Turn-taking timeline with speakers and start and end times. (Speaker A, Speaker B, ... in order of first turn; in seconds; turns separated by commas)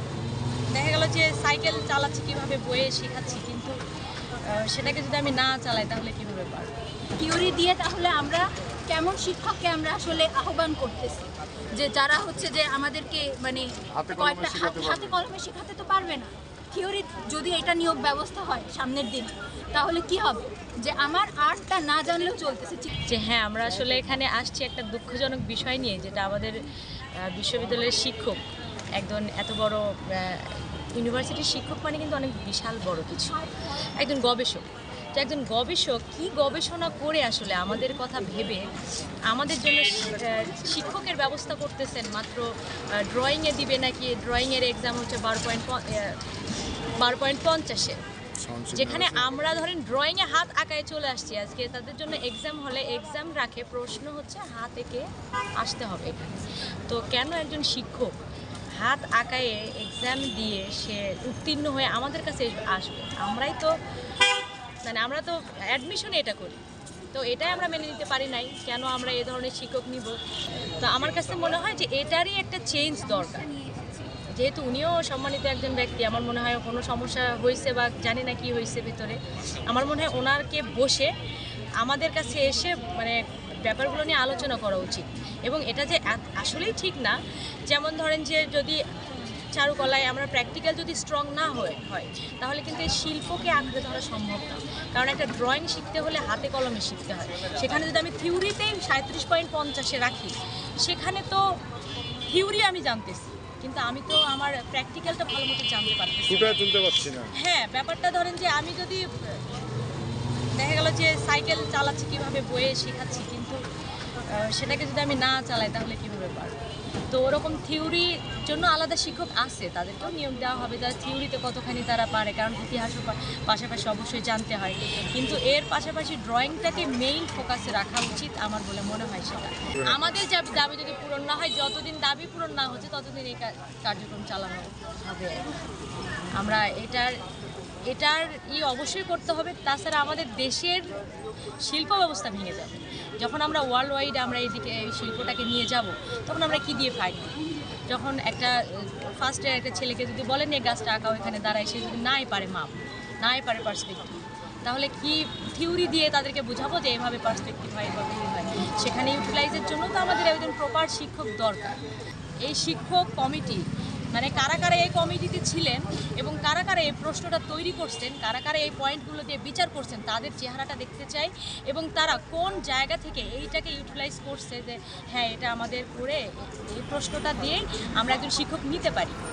Speaker A: 0.7-3.8, Speaker A: 4.4-6.7, Speaker B: 7.2-11.2, Speaker B: 11.8-22.9, Speaker C: 13.9-15.2, Speaker A: 23.1-26.6, Speaker A: 27.1-28.4, Speaker A: 29.0-38.7, Speaker A: 39.3-46.2, Speaker A: 47.0-48.0, Speaker C: 48.4-49.2, Speaker A: 48.7-55.1, Speaker A: 55.6-58.1, Speaker A: 58.8-63.7, Speaker A: 64.8-66.6, Speaker A: 67.1-70.2, Speaker A: 70.8-73.5, Speaker A: 74.3-81.1, Speaker A: 81.8-87.2, Speaker A: 87.7-88.8, Speaker A: 89.5-101.4, Speaker A: 102.3-106.8, Speaker C: 106.3-107.3, Speaker A: 107.4-109.4, Speaker A: 110.6-113.6, Speaker A: 114.3-116.5, Speaker A: 117.1-135.4, Speaker A: 136.3-137.1, Speaker A: 137.9-140.9, Speaker A: 141.6-147.3, Speaker A: 147.9-161.8, Speaker A: 162.4-179.2